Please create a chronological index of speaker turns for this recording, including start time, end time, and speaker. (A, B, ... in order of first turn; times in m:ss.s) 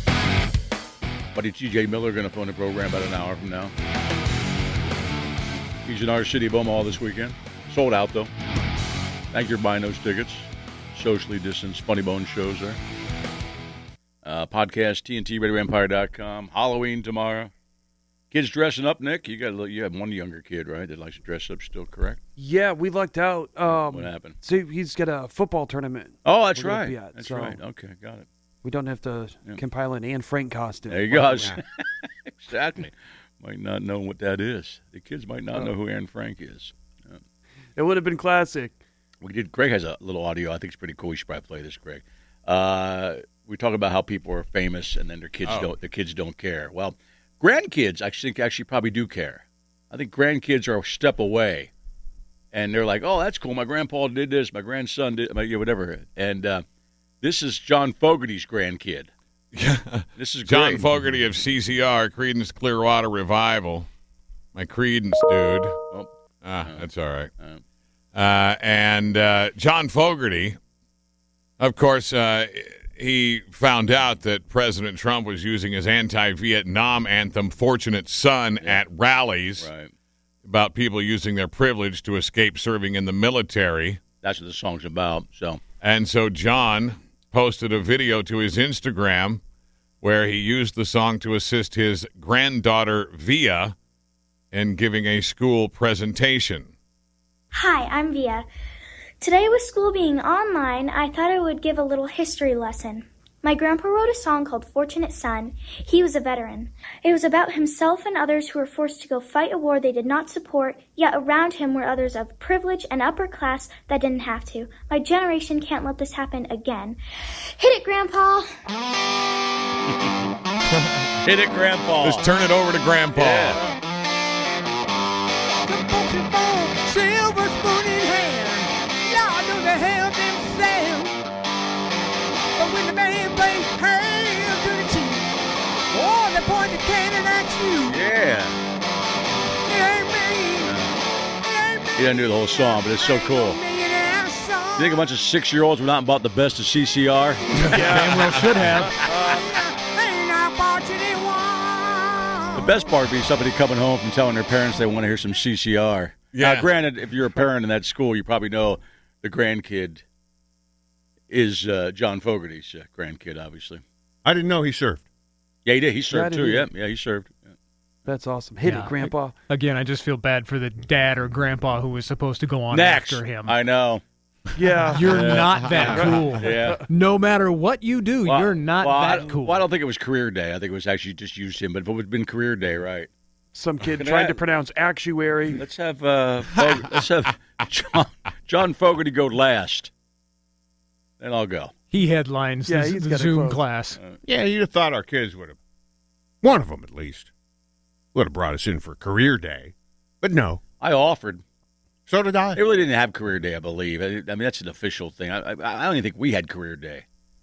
0:01.3-0:03.7 A
0:05.8-0:08.3 A
0:09.3-0:12.8 A
0:14.2-0:17.5 A
0:18.3-0:22.2 A
0:22.4-0:27.6 B
0:23.7-0:24.4 A
0:26.2-0:28.2 A
0:28.6-0:31.5 B
0:30.9-0:37.2 A
0:37.8-0:38.8 B
0:39.2-0:51.7 A
0:45.4-0:45.7 C
0:52.5-0:56.6 A
0:57.2-0:59.1 A
0:59.5-1:03.9 C
1:00.2-1:00.9 A
1:04.5-1:05.8 C
1:06.4-1:07.3 C
1:06.6-1:06.9 A
1:08.1-1:10.6 C
1:11.6-1:19.7 C
1:19.6-1:19.9 A
1:20.4-1:24.0 C
1:24.2-1:25.6 A
1:25.8-1:29.4 C
1:30.0-1:33.7 C
1:34.5-1:36.7 C
1:37.5-1:38.5 D
1:39.2-1:58.5 D
2:00.7-2:01.1 C
2:01.2-2:02.3 A
2:02.0-2:03.6 C
2:03.1-2:03.6 A
2:05.7-2:11.1 E
2:12.6-2:15.2 E
2:15.9-2:18.0 E
2:17.8-2:18.6 A
2:19.7-2:20.7 E
2:20.6-2:20.9 A
2:21.5-2:22.2 E
2:22.0-2:23.6 A
2:22.8-2:25.0 E
2:24.8-2:27.4 A
2:27.6-2:28.9 C
2:27.8-2:29.0 F
2:29.0-2:29.3 B
2:29.5-2:32.8 E
2:32.5-2:40.0 A
2:36.3-2:36.7 C
2:41.3-2:43.8 A
2:44.2-2:45.0 G
2:45.6-2:47.5 A
2:46.1-2:46.7 B
2:48.1-2:49.3 B
2:48.6-2:53.6 F
2:52.7-2:54.0 A
2:54.6-2:56.8 B
2:54.9-2:59.6 F
2:55.1-2:56.8 A
2:58.2-3:03.1 A
3:03.5-3:05.6 B
3:04.0-3:04.4 A
3:05.6-3:09.9 A
3:11.2-3:11.7 A
3:11.9-3:14.0 F
3:12.6-3:13.6 B
3:14.2-3:15.6 G
3:16.4-3:17.3 G
3:18.1-3:20.6 G
3:20.8-3:21.4 A
3:22.1-3:22.6 G
3:22.5-3:27.0 A